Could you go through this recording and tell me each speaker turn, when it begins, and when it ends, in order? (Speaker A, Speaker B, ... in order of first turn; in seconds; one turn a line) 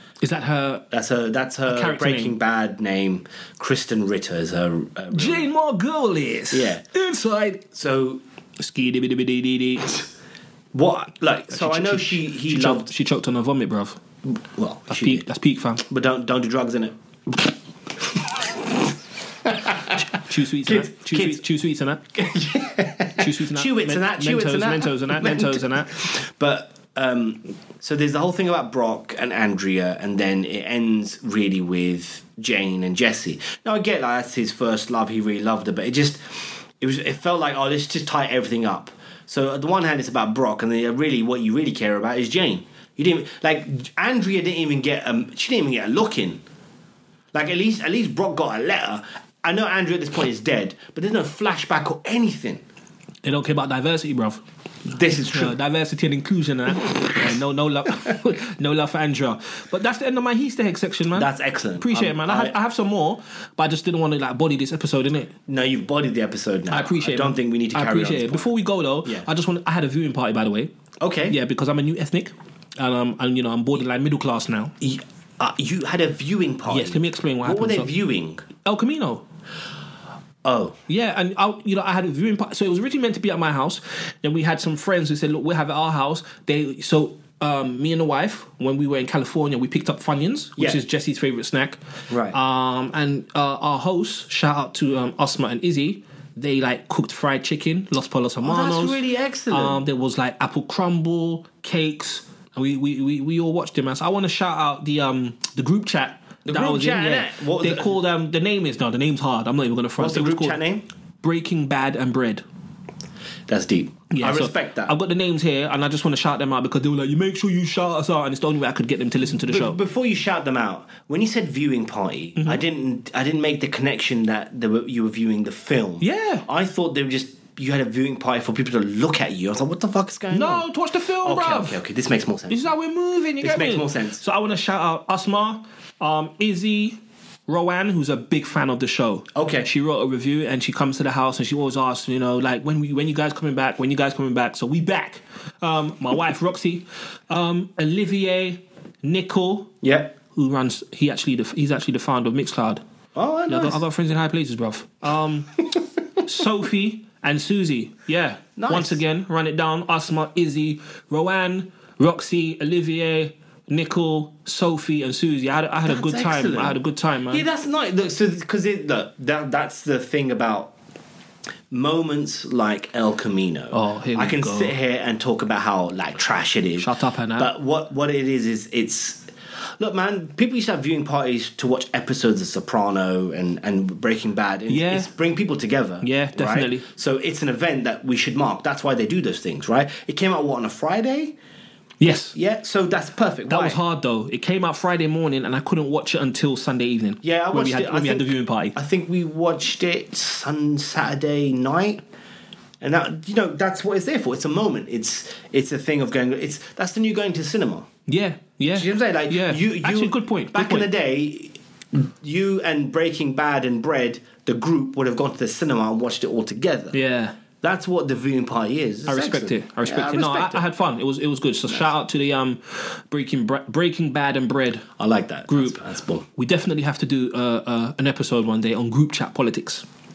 Speaker A: 0.2-0.8
Speaker B: 0.9-5.5
Speaker A: 1.7-2.4
Speaker A: 5.1-7.7
Speaker B: 6.5-6.8
Speaker B: 7.7-8.2
Speaker A: 8.6-10.0
Speaker B: 10.7-12.9
Speaker A: 11.5-14.0
Speaker B: 14.3-15.2
Speaker A: 14.9-15.8
Speaker B: 15.8-18.9
Speaker B: 19.4-20.0
Speaker A: 19.9-22.0
Speaker B: 20.6-21.4
Speaker B: 22.1-36.2
Speaker A: 23.1-26.0
Speaker B: 36.8-46.4
Speaker B: 47.3-52.6
Speaker A: 53.2-54.4
Speaker B: 54.9-55.5
Speaker A: 55.3-65.3
Speaker B: 61.1-62.5
Speaker B: 65.5-68.5
Speaker A: 66.7-70.7
Speaker B: 71.0-71.3
Speaker A: 71.3-74.7
Speaker B: 74.8-78.4
Speaker A: 76.7-77.9
Speaker A: 78.6-79.2
Speaker B: 80.4-80.8
Speaker A: 80.9-91.8
Speaker B: 92.1-92.4
Speaker A: 92.3-110.6
Speaker B: 98.4-99.8
Speaker B: 106.4-108.0
Speaker B: 110.0-110.8
Speaker A: 111.2-112.4
Speaker B: 113.5-114.9
Speaker A: 114.1-119.8
Speaker B: 119.4-130.6
Speaker A: 122.3-122.6
Speaker A: 126.0-126.5
Speaker A: 130.3-131.8
Speaker B: 131.2-132.7
Speaker A: 132.5-149.7
Speaker B: 133.4-134.2
Speaker B: 139.3-139.7
Speaker B: 149.8-150.1
Speaker A: 150.3-152.8
Speaker B: 153.1-153.8
Speaker A: 153.5-155.6
Speaker A: 156.2-167.4
Speaker B: 158.6-159.0
Speaker B: 165.8-170.7
Speaker B: 171.7-179.3
Speaker A: 173.7-174.7
Speaker A: 176.8-177.5
Speaker B: 179.8-191.3
Speaker A: 184.7-185.1
Speaker A: 186.0-186.9
Speaker A: 192.0-192.3
Speaker B: 192.3-193.8
Speaker A: 193.5-198.8
Speaker B: 197.2-202.0
Speaker B: 202.8-207.9
Speaker A: 208.1-210.9
Speaker B: 208.7-217.0
Speaker A: 216.9-217.3
Speaker B: 217.6-220.6
Speaker A: 219.1-224.9
Speaker B: 225.0-226.2
Speaker A: 225.5-225.8
Speaker A: 226.3-229.8